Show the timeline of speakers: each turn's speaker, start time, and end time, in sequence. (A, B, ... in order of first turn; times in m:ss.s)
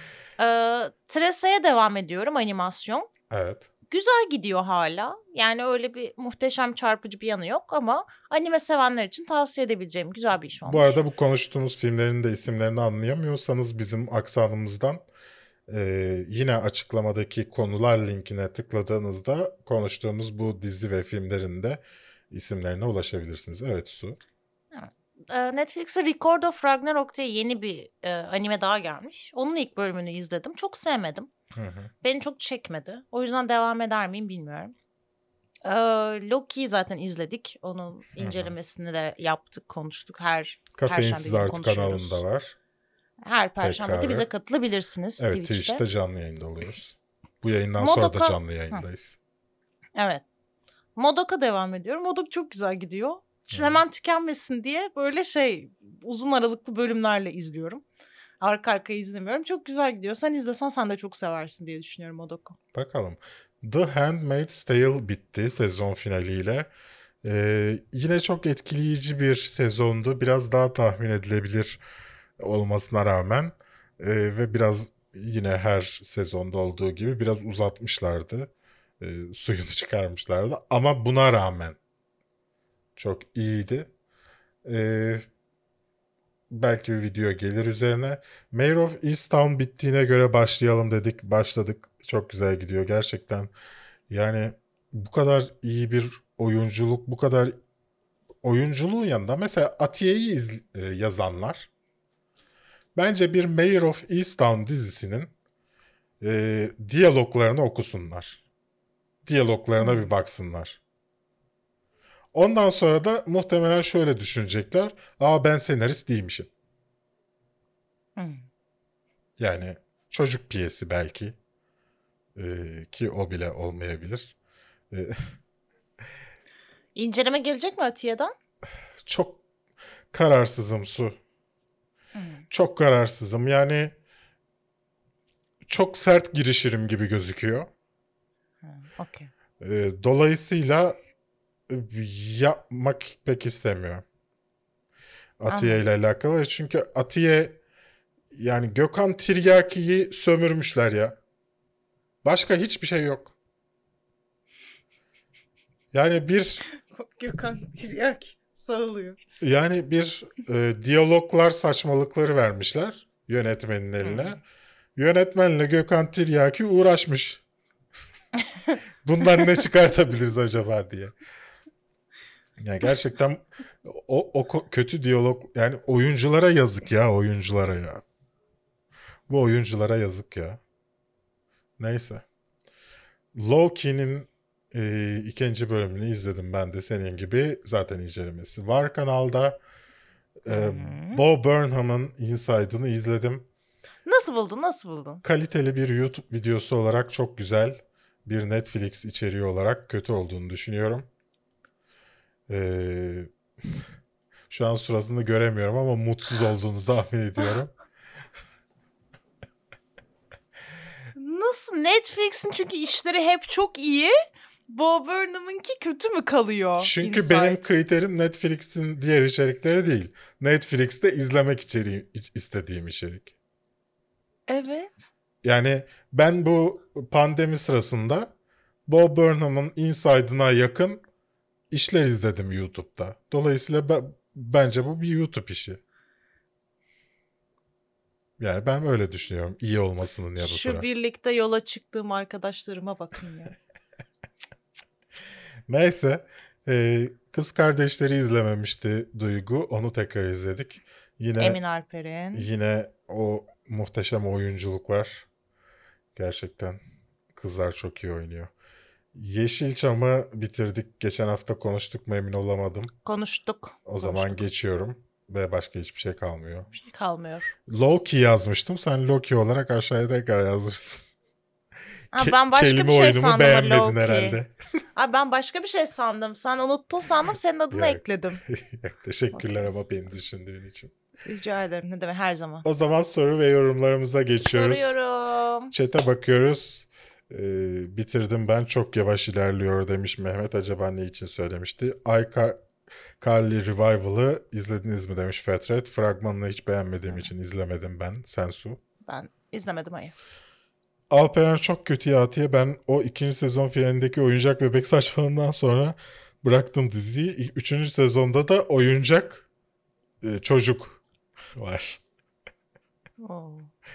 0:00.4-0:03.1 A
0:03.3-0:03.7 B
0:03.9-0:11.0 A
0:10.7-0:15.0 B
0:15.7-0:24.2 B
0:24.7-0:31.3 A
0:31.5-0:31.9 B
0:32.0-0:34.7 A
0:35.6-0:42.2 A
0:38.2-0:38.5 B
0:40.8-0:42.6 B
0:43.3-0:45.8 A
0:43.6-0:44.3 B
0:45.2-0:49.2 B
0:47.8-0:48.8 A
0:50.0-0:50.2 A
0:51.0-0:57.8 A
0:53.5-0:53.8 B
0:58.4-1:02.6 A
1:02.7-1:06.7 B
1:07.2-1:11.8 B
1:12.4-1:21.8 B
1:23.0-1:23.9 B
1:24.6-1:25.3 B
1:26.5-1:33.5 B
1:34.1-1:37.6 B
1:38.4-1:41.7 B
1:43.0-1:45.3 B
1:46.2-1:48.4 B
1:49.3-1:50.8 B
1:49.8-1:50.1 A
1:52.3-1:56.5 B
1:58.2-1:58.4 A
1:59.4-2:01.4 B
2:02.4-2:04.3 B
2:04.9-2:05.3 B
2:07.0-2:08.3 A
2:09.0-2:09.4 B
2:10.1-2:11.2 B
2:12.2-2:12.4 A
2:12.5-2:14.0 B
2:15.7-2:17.7 B
2:18.6-2:19.3 A
2:19.6-2:21.0 B
2:21.7-2:24.0 B
2:25.4-2:27.6 B
2:25.5-2:25.8 A
2:28.3-2:31.2 B
2:32.2-2:33.3 B
2:35.9-2:36.6 B
2:36.8-2:39.2 A
2:39.4-2:44.4 B
2:44.0-2:44.4 A
2:45.0-2:47.4 B
2:49.0-2:51.1 B
2:52.6-2:58.0 B
2:59.3-3:00.6 B
3:01.8-3:02.2 B
3:03.3-3:09.6 B
3:10.4-3:13.5 B
3:10.5-3:11.2 A
3:14.1-3:15.2 A
3:15.2-3:21.1 B
3:22.5-3:23.3 B
3:24.5-3:27.7 B
3:31.2-3:34.2 A
3:34.7-3:37.6 A
3:36.8-3:43.3 B
3:44.5-3:45.1 A
3:45.4-3:48.3 B
3:48.9-3:51.0 B
3:51.7-3:55.8 B
3:58.4-4:00.8 B
4:00.4-4:03.5 A
4:05.7-4:11.6 B
4:11.4-4:12.5 A
4:12.3-4:15.3 B
4:16.2-4:16.8 B
4:17.4-4:18.5 B
4:19.1-4:22.9 B
4:23.0-4:24.5 A
4:23.9-4:26.7 B
4:26.7-4:27.5 A
4:27.7-4:31.0 B
4:32.1-4:34.4 A
4:32.2-4:34.5 B
4:35.0-4:38.4 A
4:37.7-4:40.9 B
4:41.2-4:42.6 A
4:42.6-4:45.0 B
4:44.4-4:45.7 A
4:45.7-4:52.6 B
4:53.2-4:58.8 B
4:59.1-5:00.1 A
5:01.1-5:09.5 B
5:10.2-5:11.0 B
5:11.6-5:12.0 B
5:13.2-5:13.7 A